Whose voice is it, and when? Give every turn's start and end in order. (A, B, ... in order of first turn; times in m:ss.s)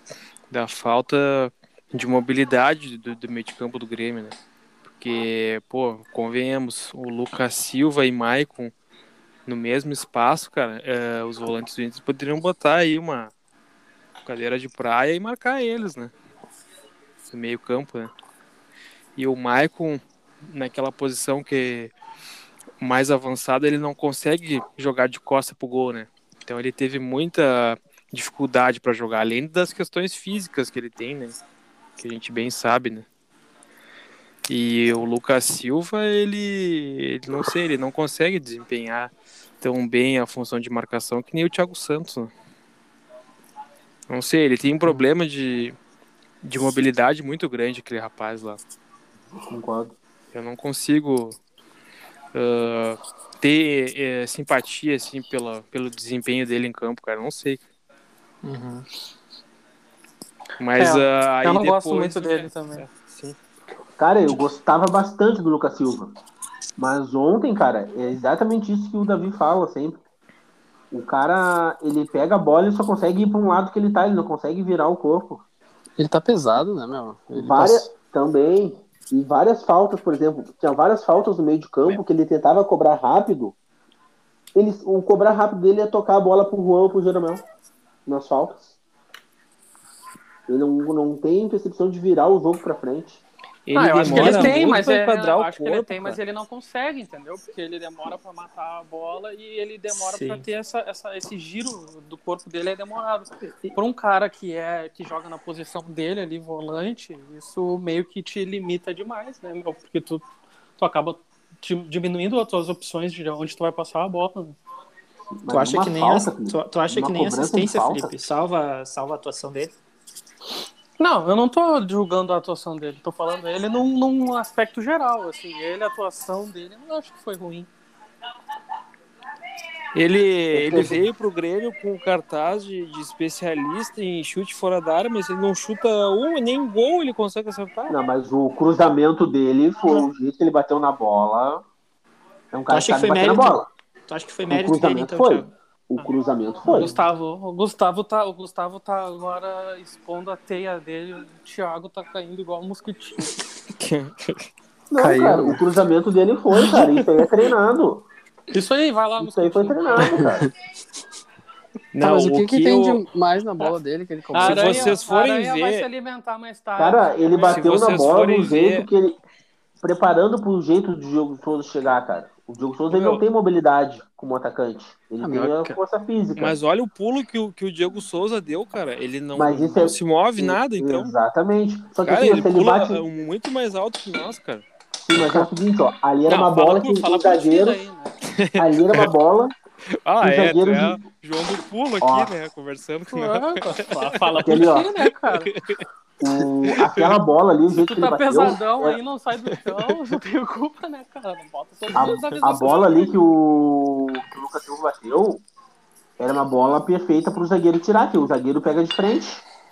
0:00.5-0:04.4 A
0:05.0-0:08.7 A
0:09.5-0:13.3 A
0:14.2-0:16.1 A
0:17.3-0:18.1 A
0:19.2-0:21.9 A
0:22.8-0:31.4 A
0:32.0-0:33.0 A
0:34.5-0:42.3 A
0:44.1-0:45.8 A
0:46.4-0:48.6 A
0:49.4-0:49.9 B
0:50.3-0:51.4 A
0:52.3-0:57.6 A
0:58.4-0:58.8 C
1:00.6-1:03.4 A
1:00.8-1:02.8 D
1:04.0-1:06.2 B
1:06.8-1:10.0 B
1:10.9-1:15.4 B
1:16.0-1:17.9 E
1:17.3-1:23.5 B
1:24.5-1:27.4 B
1:28.0-1:28.7 B
1:30.5-1:33.2 B
1:33.7-1:36.2 A
1:33.7-1:50.2 D
1:34.0-1:34.6 C
1:40.1-1:40.4 C
1:50.8-1:54.6 D
1:55.4-1:58.1 B
1:55.5-1:59.8 C
2:01.0-2:07.7 D
2:09.9-2:18.0 A
2:10.5-2:11.0 B
2:17.9-2:21.6 B
2:22.5-2:23.7 B
2:22.7-2:25.5 C
2:24.5-2:26.9 B
2:26.7-2:33.3 D
2:33.8-2:34.4 A
2:34.9-2:38.1 B
2:35.0-2:35.6 A
2:38.5-2:40.3 D
2:39.2-2:40.5 B
2:41.9-2:43.0 A
2:42.0-2:45.0 E
2:44.3-2:45.9 A
2:44.3-2:47.9 D
2:46.8-2:49.2 B
2:47.5-2:48.9 A
2:49.8-2:56.6 B
2:52.9-2:53.2 A
2:55.2-2:55.8 E
2:56.4-3:01.1 A
2:59.3-3:03.0 B
3:02.0-3:04.6 A
3:05.0-3:07.8 B
3:06.3-3:08.1 D
3:08.3-3:09.1 A
3:08.6-3:09.5 B
3:10.0-3:15.8 A
3:10.2-3:11.0 B
3:12.0-3:12.3 B
3:13.1-3:15.5 D
3:14.4-3:14.9 B
3:16.2-3:19.0 B
3:16.6-3:17.2 A
3:17.8-3:23.1 D
3:19.5-3:19.9 A
3:21.9-3:22.4 A
3:21.9-3:25.4 B
3:26.2-3:29.4 B